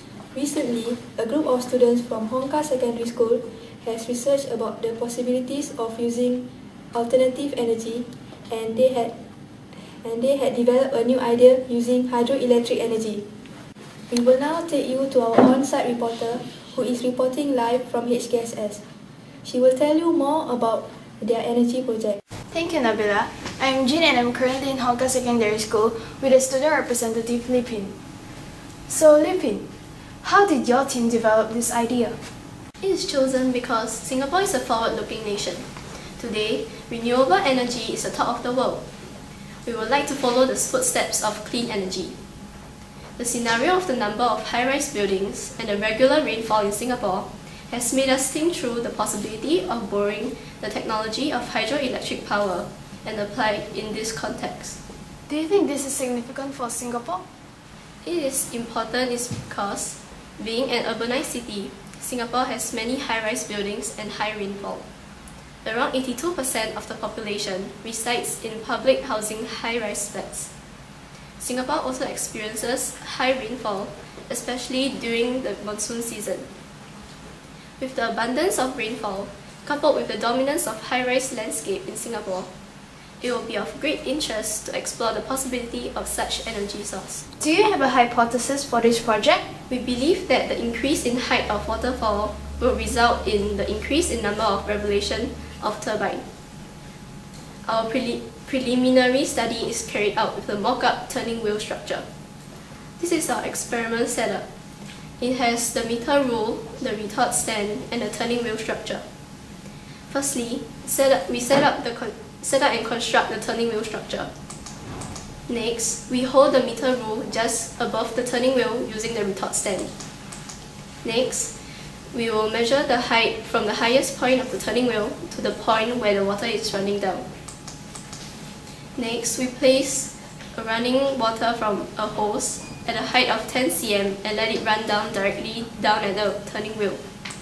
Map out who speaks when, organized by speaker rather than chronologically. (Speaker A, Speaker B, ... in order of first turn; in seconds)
Speaker A: 0.3-9.1, 9.7-13.2, 14.1-18.8, 19.4-22.2
Speaker B: 22.5-27.9, 28.9-29.7, 30.2-32.2, 55.3-57.2, 87.4-89.5
Speaker C: 32.8-35.7, 36.2-38.8, 39.6-42.2, 43.2-54.8, 58.0-64.8, 65.6-70.5, 71.4-76.5, 77.8-82.5, 83.2-87.2, 89.7-96.2, 97.7-102.0, 103.0-104.5, 105.2-109.0, 110.1-114.3, 115.5-119.9, 121.0-121.5, 122.1-127.2, 129.0-137.0